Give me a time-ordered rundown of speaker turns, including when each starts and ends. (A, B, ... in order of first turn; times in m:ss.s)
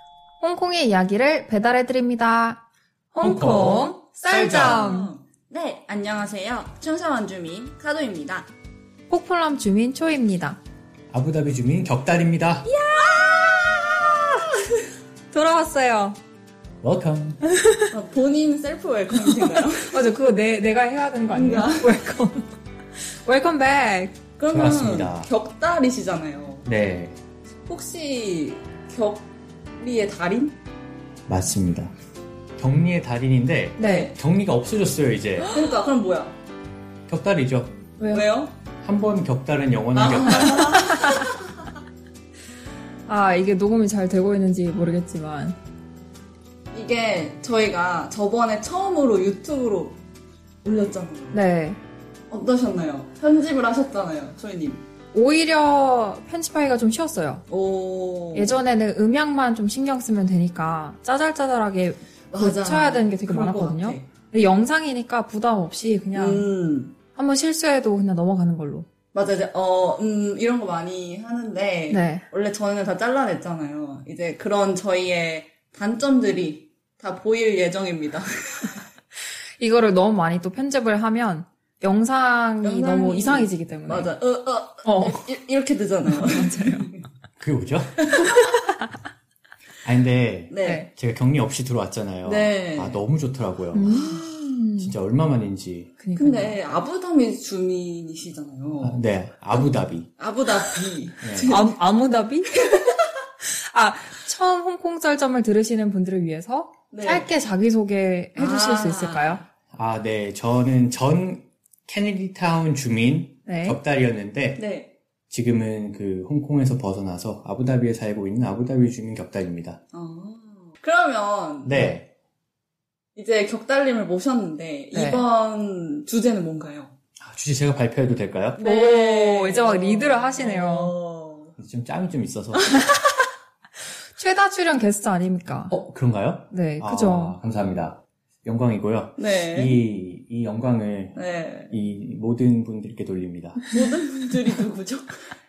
0:00.4-0:02.6 A
0:03.1-0:05.1 A
0:03.2-0:04.9 B
0:04.3-0:08.5 C
0:09.1-0:10.6 A
0:11.1-0:12.7 B
0:12.7-0:14.8 C
0:15.3-0:16.2 A
0:16.8-0:17.4 B
0:17.5-0:17.9 A
0:17.9-0:20.1 C
0:19.9-0:22.5 A
0:21.3-0:21.9 C
0:23.1-0:24.2 A
0:24.4-0:26.7 C
0:24.5-0:25.3 B
0:26.6-0:27.2 B
0:27.7-0:30.6 C
0:31.3-0:31.9 B
0:32.6-0:35.5 B
0:33.8-0:34.1 A
0:33.8-0:34.2 C
0:35.5-0:36.4 C
0:37.1-0:37.8 B
0:38.0-0:38.2 A
0:38.1-0:38.5 C
0:38.8-0:40.9 B
0:40.0-0:41.4 C
0:40.9-0:41.2 A
0:43.1-0:45.6 A
0:46.7-0:50.0 C
0:50.6-0:51.4 C
0:51.3-0:51.8 A
0:52.3-0:54.8 C
0:55.1-0:57.4 A
0:57.5-0:58.6 C
0:58.3-1:06.5 A
1:02.3-1:04.1 C
1:06.2-1:06.9 C
1:07.2-1:08.9 A
1:09.1-1:18.8 C
1:11.9-1:12.2 A
1:19.6-1:24.1 A
1:22.6-1:27.0 C
1:24.8-1:25.2 A
1:26.2-1:26.9 A
1:27.4-1:28.2 B
1:28.0-1:28.4 C
1:29.8-1:34.0 B
1:30.5-1:30.9 C
1:32.3-1:33.0 C
1:33.7-1:34.9 A
1:33.9-1:34.4 C
1:34.8-1:35.9 B
1:36.0-1:36.6 A
1:36.2-1:39.0 C
1:38.8-1:40.1 B
1:40.2-1:41.8 C
1:41.2-1:41.6 B
1:41.5-1:49.4 A
1:42.5-1:43.2 C
1:46.9-1:47.3 C
1:48.4-1:49.4 C
1:49.7-1:54.6 B
1:53.5-1:53.8 A
1:54.6-1:54.9 C
1:55.3-1:59.8 B
1:59.9-2:01.9 C
2:01.6-2:02.1 B
2:03.2-2:06.9 C
2:05.0-2:05.2 A
2:07.2-2:08.6 B
2:08.6-2:11.6 C
2:08.6-2:10.9 A
2:11.6-2:12.8 B
2:12.5-2:13.0 C
2:14.2-2:15.7 A
2:15.7-2:23.6 B
2:16.5-2:17.4 A
2:19.2-2:19.8 C
2:21.2-2:21.7 C
2:23.7-2:25.3 C